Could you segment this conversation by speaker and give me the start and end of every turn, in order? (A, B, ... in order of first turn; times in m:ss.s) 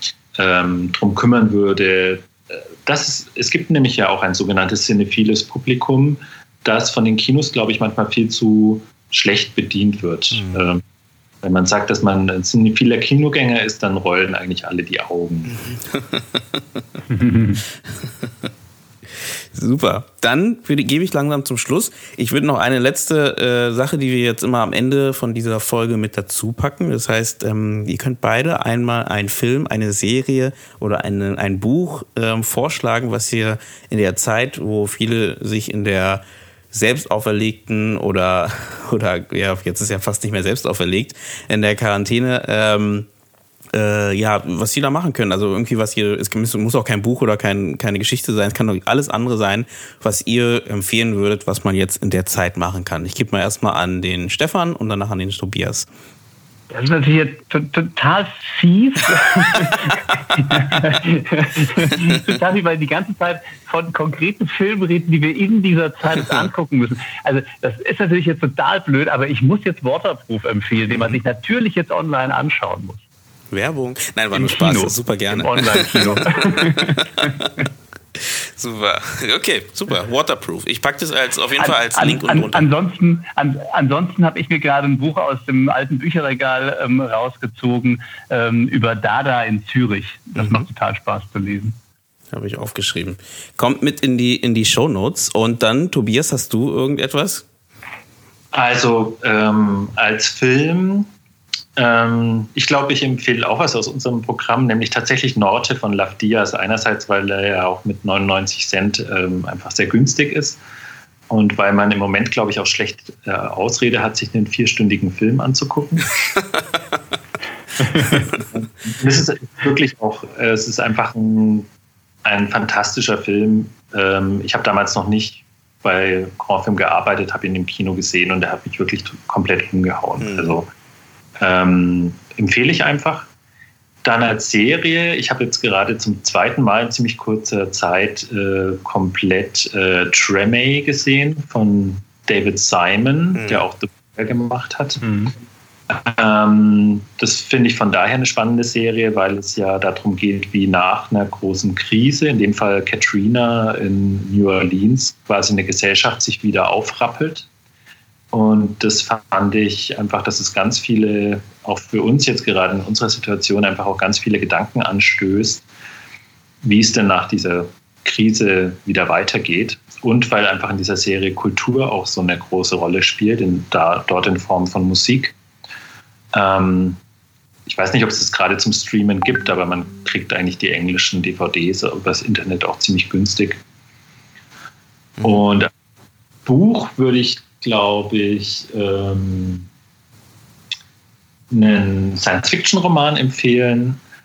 0:00.4-0:10.8 A
0:10.3-0:10.6 B
0:11.4-0:15.6 A
0:15.5-0:16.8 B
0:17.1-0:17.6 C
0:18.0-0:18.5 B
0:19.5-0:43.1 B
0:43.7-0:55.9 B
0:56.7-1:13.0 C
1:00.5-1:00.8 B
1:10.9-1:11.2 B
1:13.5-1:17.5 B
1:14.3-1:17.3 C
1:18.2-1:22.7 B
1:21.6-1:31.8 C
1:30.4-1:30.6 B
1:32.3-1:37.4 B
1:38.5-1:41.1 A
1:41.8-1:50.6 A
1:51.3-1:56.1 A
1:58.1-1:58.4 B
1:58.4-2:01.7 A
2:02.2-2:10.7 A
2:10.2-2:10.6 B
2:11.4-2:13.3 A
2:14.0-2:25.1 A
2:23.4-2:23.6 B
2:25.9-2:37.5 A
2:38.3-2:45.6 A
2:46.6-2:55.4 A
2:56.3-2:57.0 A
2:57.7-3:03.6 A
3:05.2-3:05.7 A
3:06.4-3:09.7 A
3:11.5-3:14.0 A